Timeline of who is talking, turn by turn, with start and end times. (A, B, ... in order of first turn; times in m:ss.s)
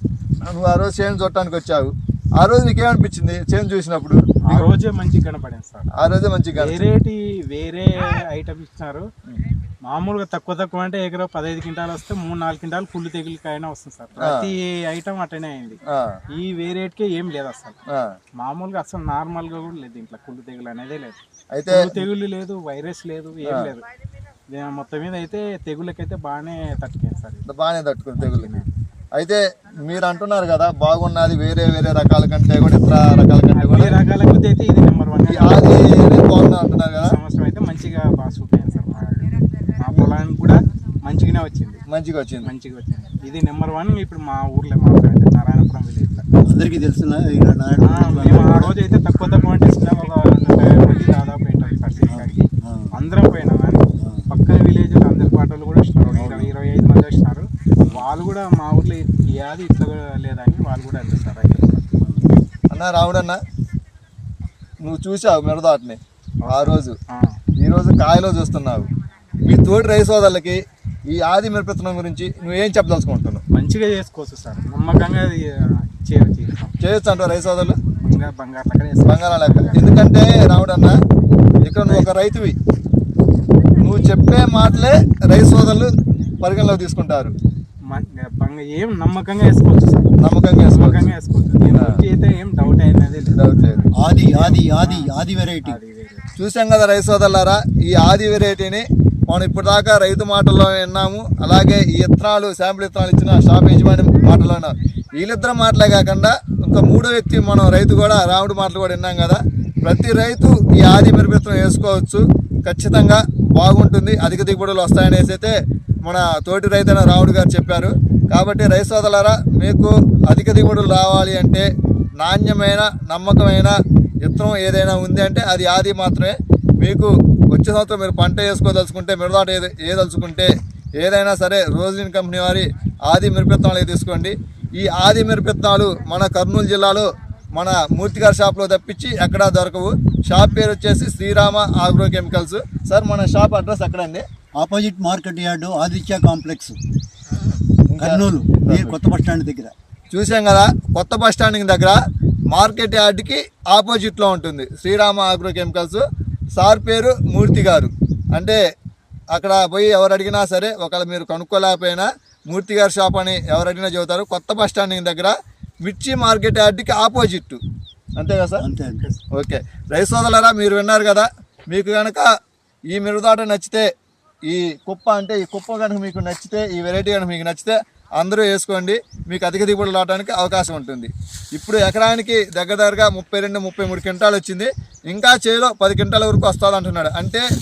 0:00.4-0:04.7 A
0:04.4-0:05.9 B
0:06.0-0:06.8 A
0:06.5-0:09.1 B
0:09.8-0:15.8 B
0:14.2-0:14.5 A
0:15.9-0:16.1 A
0:16.3-0:17.8 B
0:18.4-0:23.8 B
0:21.5-0:22.0 A
0:23.4-0:23.7 A
0:24.5-0:27.4 B
0:27.5-0:28.6 A
0:28.2-0:28.7 B
0:29.2-0:34.0 A
0:33.5-0:36.1 B
0:35.3-0:37.2 A
0:37.0-0:41.8 B
0:41.9-0:42.5 A
0:42.4-0:46.2 B
0:46.5-0:48.7 C
0:47.8-1:01.8 B
0:52.1-0:52.9 C
0:53.9-0:54.3 C
0:56.1-0:56.5 C
0:57.8-0:58.0 C
1:02.0-1:02.3 C
1:02.7-1:03.4 A
1:04.8-1:07.0 A
1:06.4-1:07.3 B
1:07.6-1:08.9 A
1:09.4-1:13.4 A
1:13.5-1:16.7 B
1:16.8-1:17.8 A
1:18.0-1:19.9 B
1:19.0-1:21.0 A
1:21.6-1:22.5 A
1:23.8-1:25.9 A
1:26.4-1:27.3 A
1:27.9-1:35.1 B
1:30.2-1:31.0 A
1:31.7-1:32.0 A
1:33.3-1:33.8 A
1:34.0-1:35.8 C
1:35.6-1:36.2 B
1:36.4-2:01.7 A
2:02.2-2:24.2 A
2:24.6-2:26.8 C
2:27.9-2:29.0 A
2:28.0-2:29.7 C
2:30.1-2:32.0 A
2:32.5-2:36.0 A
2:36.6-2:38.6 A
2:39.3-2:45.3 A
2:45.8-2:47.6 A
2:48.2-2:48.6 A
2:48.6-2:49.0 C
2:49.3-2:52.3 A
2:52.9-2:53.8 A
2:54.5-3:07.4 A